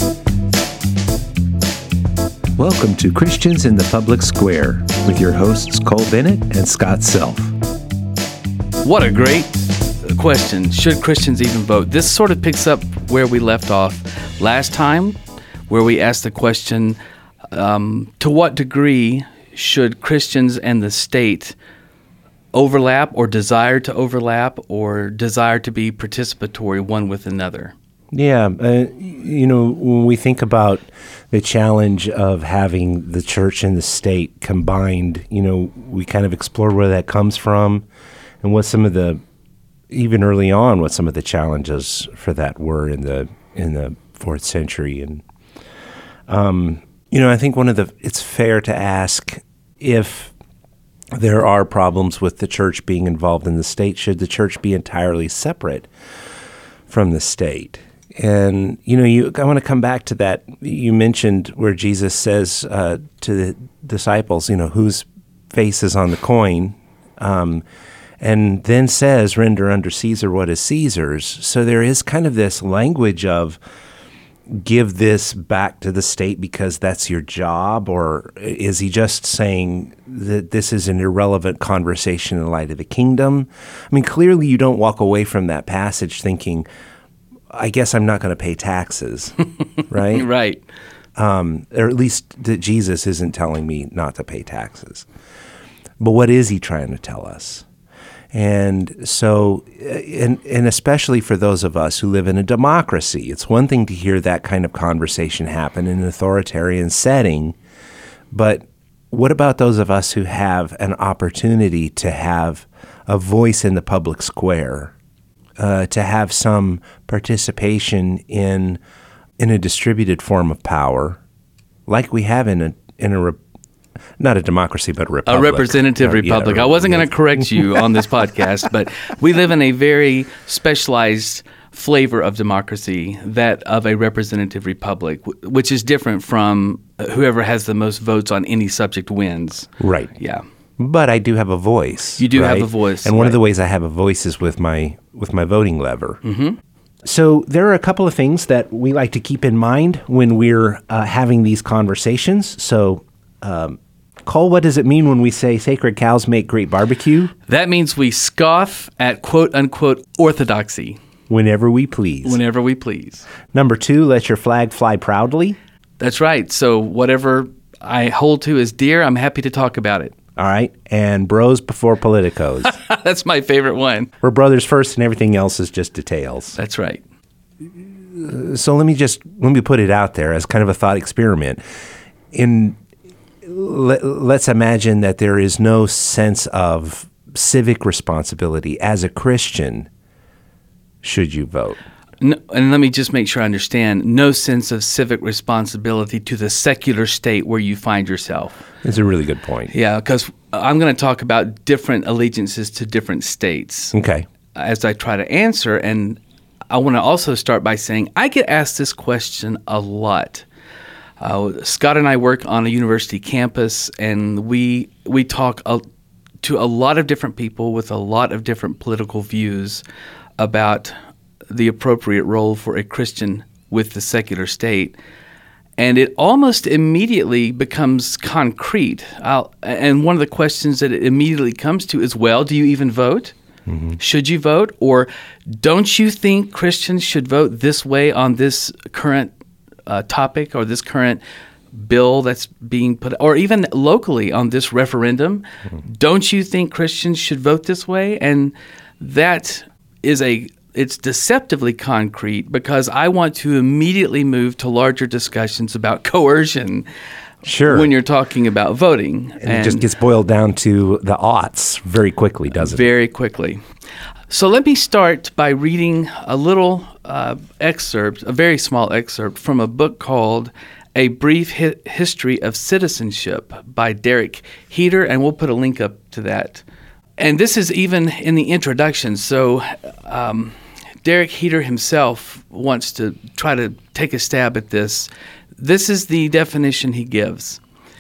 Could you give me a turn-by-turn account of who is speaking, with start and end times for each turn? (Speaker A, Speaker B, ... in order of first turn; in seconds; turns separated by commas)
Speaker A: 2.6-7.5, Speaker B: 8.8-17.0, Speaker B: 17.5-21.6, Speaker B: 22.5-27.7, Speaker A: 28.1-37.9, Speaker A: 38.4-39.2, Speaker A: 39.9-45.2, Speaker A: 46.3-50.3, Speaker A: 51.1-55.9, Speaker A: 56.9-67.6, Speaker A: 68.2-73.6, Speaker A: 74.5-86.7, Speaker A: 87.5-90.3, Speaker B: 90.0-90.6, Speaker A: 91.2-95.1, Speaker A: 96.0-97.7, Speaker A: 98.3-107.6, Speaker A: 108.3-114.9, Speaker A: 115.6-118.8, Speaker A: 119.4-121.2, Speaker A: 121.9-123.4, Speaker A: 124.2-127.8, Speaker B: 125.3-140.4, Speaker A: 139.8-140.1, Speaker A: 140.8-146.2, Speaker B: 142.2-143.4, Speaker B: 146.2-146.6, Speaker A: 147.1-157.3, Speaker B: 157.5-161.0, Speaker A: 161.3-162.4, Speaker B: 162.2-163.3, Speaker A: 163.5-165.6, Speaker B: 166.0-170.2, Speaker A: 170.4-172.7, Speaker B: 172.7-174.1, Speaker A: 174.2-176.6, Speaker B: 176.6-177.0, Speaker A: 178.1-181.6, Speaker A: 182.3-182.8, Speaker A: 183.4-189.9, Speaker A: 191.0-191.8, Speaker B: 192.2-198.6, Speaker A: 198.8-199.7, Speaker B: 199.7-203.9, Speaker A: 203.9-204.2, Speaker B: 204.5-210.4, Speaker B: 211.2-215.8, Speaker B: 216.4-219.8, Speaker B: 220.4-220.9, Speaker B: 221.5-224.9, Speaker B: 225.8-233.3, Speaker A: 233.7-234.0, Speaker B: 234.0-239.3, Speaker B: 239.9-241.2, Speaker B: 241.7-256.9, Speaker A: 257.4-257.9, Speaker B: 257.6-259.9, Speaker A: 259.4-262.9, Speaker B: 262.6-263.6, Speaker B: 264.3-276.6, Speaker B: 277.2-287.6